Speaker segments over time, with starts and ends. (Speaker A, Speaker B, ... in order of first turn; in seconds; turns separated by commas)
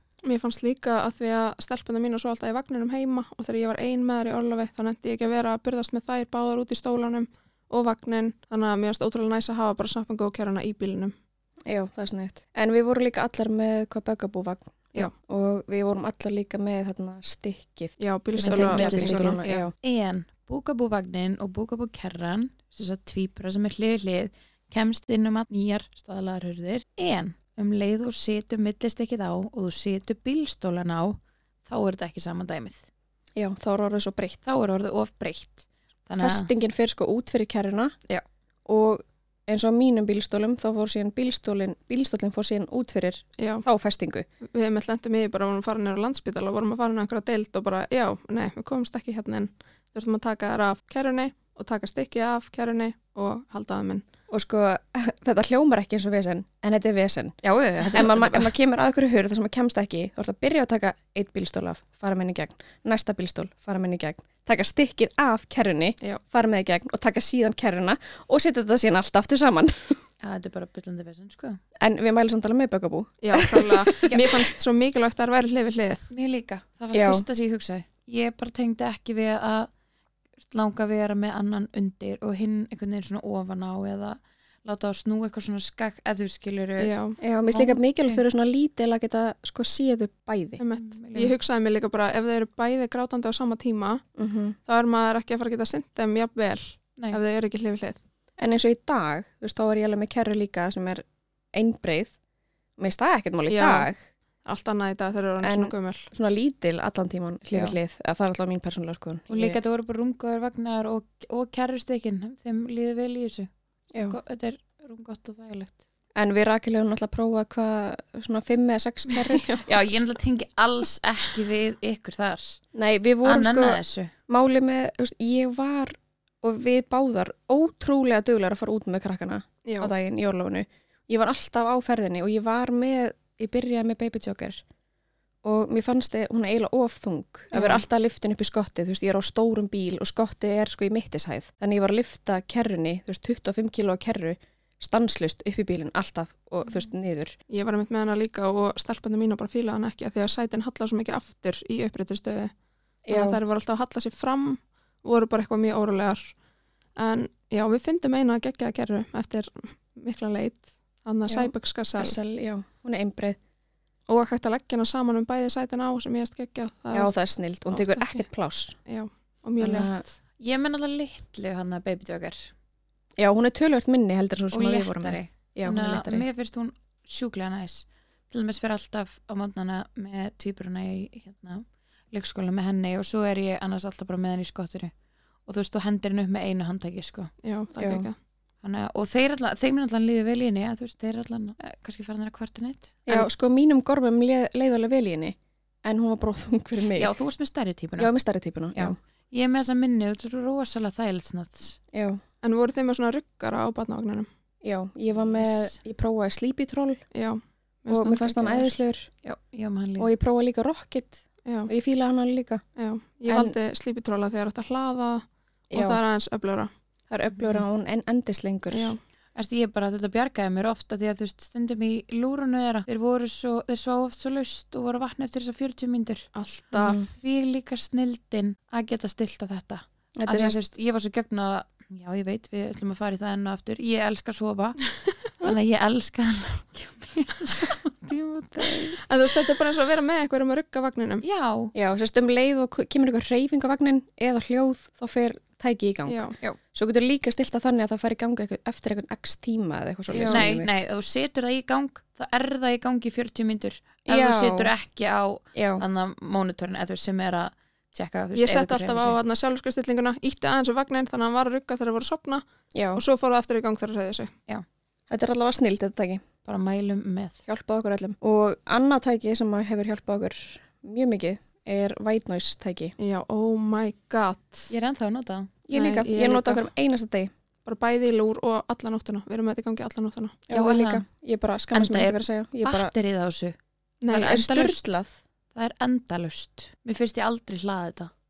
Speaker A: 0.2-11.1, Speaker B: 11.7-19.7, Speaker A: 18.0-19.5, Speaker C: 18.4-32.9, Speaker B: 33.4-34.5, Speaker C: 34.4-36.5, Speaker B: 36.2-37.9, Speaker B: 38.7-44.2, Speaker A: 43.4-43.6, Speaker A: 44.5-54.1, Speaker B: 54.3-57.4, Speaker C: 57.4-58.5, Speaker B: 57.9-70.0, Speaker C: 70.2-71.6, Speaker B: 71.8-74.5, Speaker A: 73.2-76.1, Speaker C: 76.1-79.7, Speaker B: 76.9-77.2, Speaker C: 80.4-86.9, Speaker A: 86.8-87.2, Speaker B: 87.2-90.6, Speaker C: 87.5-88.2, Speaker A: 90.6-94.0, Speaker C: 90.8-91.4, Speaker B: 94.2-94.6, Speaker A: 94.7-98.0, Speaker B: 98.4-102.2, Speaker B: 102.8-104.0, Speaker A: 103.5-103.9, Speaker A: 104.5-106.1, Speaker B: 105.4-109.6, Speaker C: 109.3-113.5, Speaker B: 113.9-114.2, Speaker C: 114.0-115.8, Speaker B: 116.2-119.5, Speaker A: 119.3-119.6, Speaker C: 119.6-122.6, Speaker B: 122.7-134.6, Speaker C: 123.2-124.1, Speaker A: 129.6-129.9, Speaker B: 135.4-147.4, Speaker A: 137.5-137.8, Speaker A: 147.5-152.5, Speaker B: 153.1-153.4, Speaker A: 153.1-156.3, Speaker A: 157.0-162.2, Speaker B: 161.3-163.4, Speaker A: 164.1-167.1, Speaker B: 166.9-168.8, Speaker A: 167.7-168.2, Speaker A: 168.9-170.1, Speaker B: 169.6-170.0, Speaker C: 170.4-172.5, Speaker B: 173.2-176.2, Speaker C: 174.5-184.9, Speaker C: 185.5-187.3, Speaker A: 187.4-188.2, Speaker B: 187.8-188.1, Speaker C: 188.6-193.3, Speaker B: 193.1-197.2, Speaker C: 196.9-198.1, Speaker B: 198.0-199.0, Speaker C: 198.8-201.8, Speaker B: 201.9-202.2, Speaker A: 202.4-204.3, Speaker B: 204.6-207.0, Speaker C: 205.1-205.8, Speaker A: 207.1-208.7, Speaker B: 207.9-209.1, Speaker C: 209.2-210.1, Speaker B: 210.0-212.6, Speaker A: 211.5-211.7, Speaker A: 212.8-216.7, Speaker B: 213.3-213.6, Speaker B: 215.7-216.0, Speaker B: 217.1-218.9, Speaker C: 217.4-217.6, Speaker A: 218.7-219.0, Speaker C: 219.3-226.3, Speaker A: 226.3-227.0, Speaker B: 226.8-227.1, Speaker C: 226.9-239.0, Speaker B: 230.2-230.6, Speaker A: 239.1-241.2, Speaker C: 241.2-241.7, Speaker B: 241.7-250.7, Speaker A: 246.1-246.4, Speaker A: 250.1-250.4, Speaker C: 250.3-259.2, Speaker B: 254.1-254.7, Speaker B: 255.5-255.8, Speaker A: 258.4-262.4, Speaker B: 262.7-263.0, Speaker A: 263.0-264.3, Speaker B: 265.1-266.2, Speaker C: 266.4-267.4, Speaker B: 267.4-272.9, Speaker A: 273.0-274.7, Speaker C: 274.7-275.5, Speaker B: 275.7-277.3, Speaker A: 275.7-276.7, Speaker A: 277.6-280.4, Speaker B: 280.5-282.9, Speaker C: 280.5-281.1, Speaker C: 281.7-283.6, Speaker A: 284.0-284.5, Speaker C: 284.1-284.8, Speaker B: 284.1-285.1, Speaker C: 285.5-288.1